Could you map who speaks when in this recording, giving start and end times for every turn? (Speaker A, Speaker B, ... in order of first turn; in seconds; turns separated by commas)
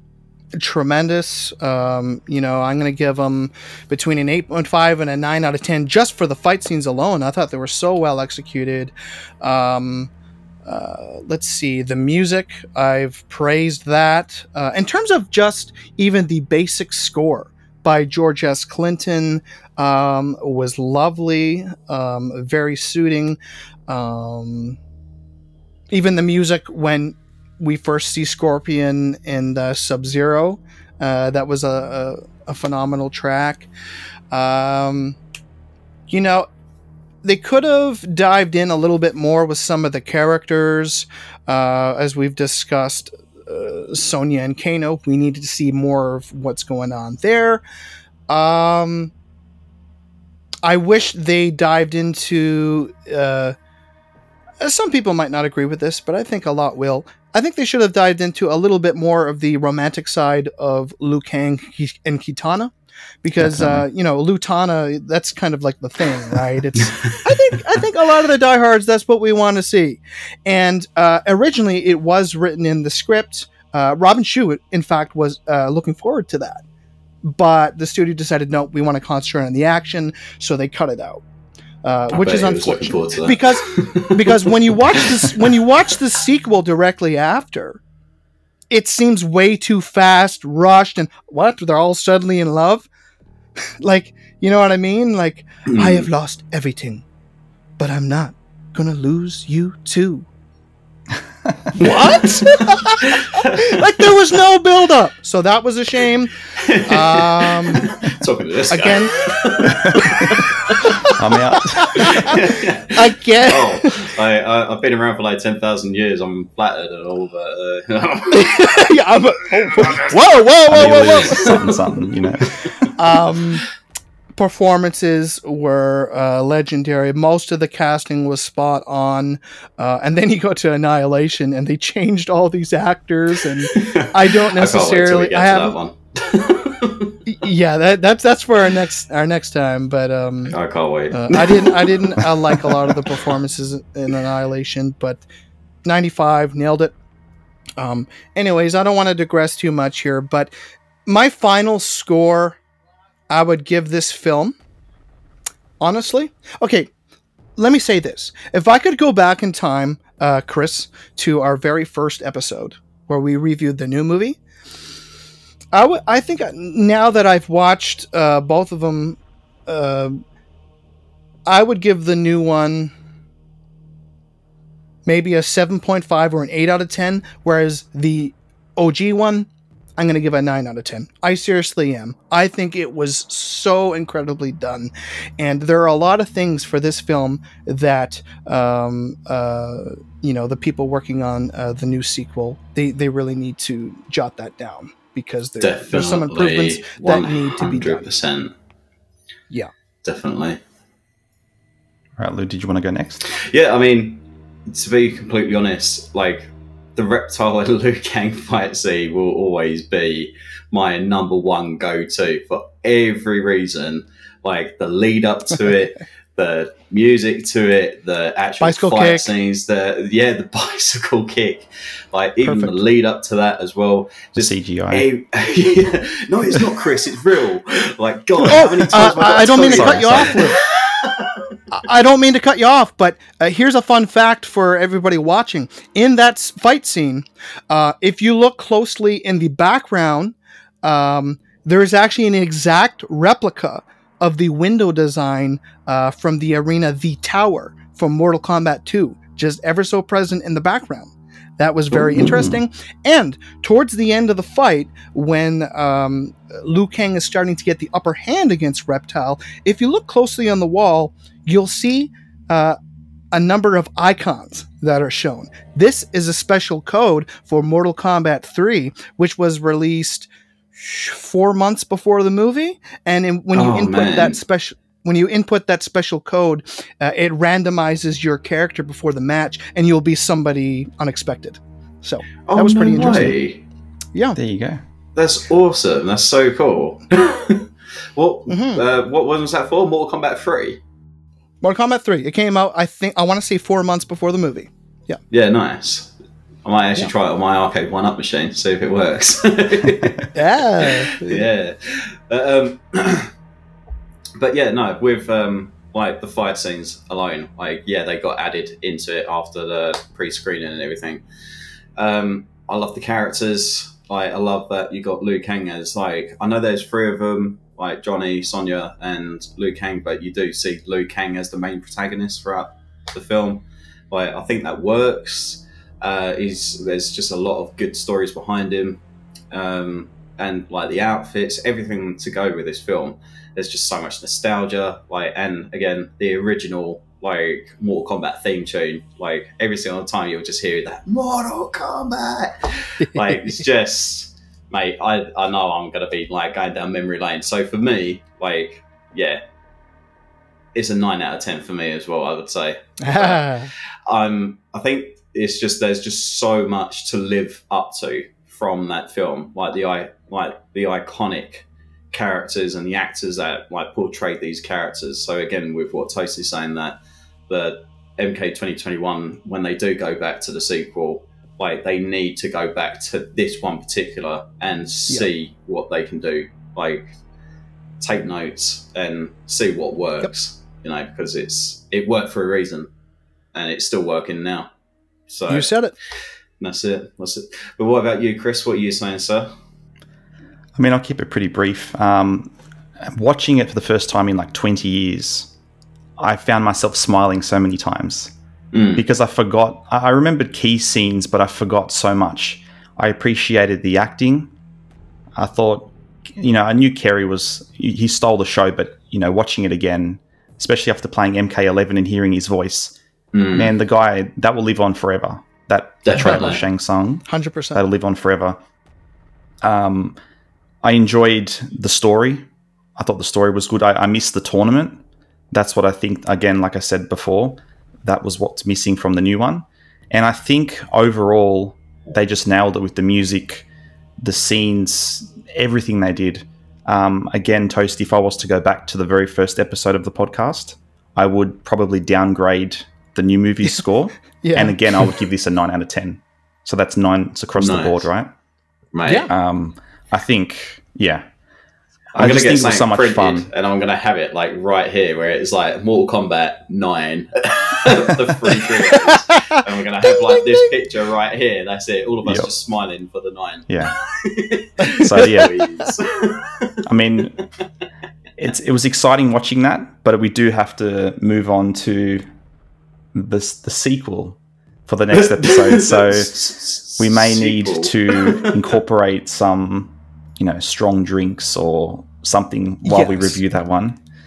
Speaker A: 0.6-10.1, Speaker A: 10.7-24.8, Speaker A: 25.9-33.7, Speaker A: 34.3-35.2, Speaker A: 36.1-36.5, Speaker A: 37.2-47.6, Speaker A: 48.3-49.1, Speaker A: 50.6-53.6, Speaker A: 54.6-62.7, Speaker A: 63.2-76.6, Speaker B: 63.4-63.9, Speaker A: 77.2-81.2, Speaker A: 81.8-87.8, Speaker C: 82.1-85.3, Speaker A: 88.7-92.9, Speaker A: 93.8-97.0, Speaker C: 95.7-96.1, Speaker A: 97.8-100.3, Speaker B: 101.5-101.7, Speaker A: 101.8-106.3, Speaker C: 101.9-102.2, Speaker C: 103.0-104.1, Speaker C: 106.6-111.1, Speaker A: 106.9-107.9, Speaker A: 108.7-109.1, Speaker B: 109.7-110.1, Speaker A: 110.0-114.1, Speaker B: 111.1-112.4, Speaker C: 112.0-119.0, Speaker A: 118.3-121.6, Speaker C: 119.8-120.1, Speaker B: 120.7-122.5, Speaker C: 121.2-122.9, Speaker A: 123.0-123.7, Speaker A: 124.4-135.8, Speaker C: 133.7-137.2, Speaker A: 137.3-140.6, Speaker C: 140.5-143.3, Speaker A: 141.1-145.2, Speaker A: 145.8-146.9, Speaker A: 147.8-150.5, Speaker A: 151.1-152.6, Speaker A: 153.3-154.6, Speaker A: 155.8-156.9, Speaker A: 157.6-164.4, Speaker A: 165.7-170.2, Speaker A: 171.5-172.9, Speaker A: 175.1-198.1, Speaker C: 195.6-198.5, Speaker C: 200.0-200.6, Speaker B: 202.2-203.2, Speaker C: 203.3-231.5, Speaker A: 218.6-219.3, Speaker A: 222.4-222.8, Speaker B: 224.4-225.1, Speaker A: 228.4-230.6, Speaker B: 229.6-230.4, Speaker A: 231.7-262.8, Speaker B: 252.1-252.6, Speaker A: 263.3-283.4, Speaker C: 273.5-274.4, Speaker C: 282.4-283.6, Speaker B: 284.4-284.8, Speaker C: 285.2-290.8, Speaker A: 288.5-288.8, Speaker A: 291.6-295.2, Speaker C: 295.3-296.1, Speaker C: 296.6-303.3, Speaker A: 300.3-301.5, Speaker C: 304.4-311.2, Speaker C: 312.0-349.4, Speaker A: 343.0-343.6, Speaker C: 350.7-367.0, Speaker A: 353.0-353.7, Speaker C: 367.5-377.1, Speaker C: 378.0-382.9, Speaker C: 383.5-384.7, Speaker C: 385.3-385.7, Speaker A: 385.5-385.9, Speaker C: 386.6-389.5, Speaker B: 390.8-395.5, Speaker B: 396.2-398.3, Speaker C: 398.7-399.0, Speaker B: 398.9-404.5, Speaker B: 405.4-413.0, Speaker C: 413.3-413.7, Speaker B: 413.6-418.6, Speaker C: 416.1-416.6, Speaker A: 417.3-417.8, Speaker B: 419.6-420.2, Speaker B: 420.8-422.5, Speaker B: 423.0-433.7, Speaker B: 434.2-448.3, Speaker A: 444.4-445.1, Speaker C: 447.6-448.1, Speaker C: 448.9-449.3, Speaker A: 449.1-449.3, Speaker B: 449.3-451.2, Speaker B: 452.1-453.5, Speaker C: 452.2-466.9, Speaker A: 458.7-460.7, Speaker B: 463.7-464.0, Speaker B: 465.0-465.7, Speaker B: 466.8-467.4, Speaker B: 468.4-472.3, Speaker B: 473.1-476.4, Speaker C: 475.1-478.6, Speaker B: 477.0-484.0, Speaker A: 482.8-483.4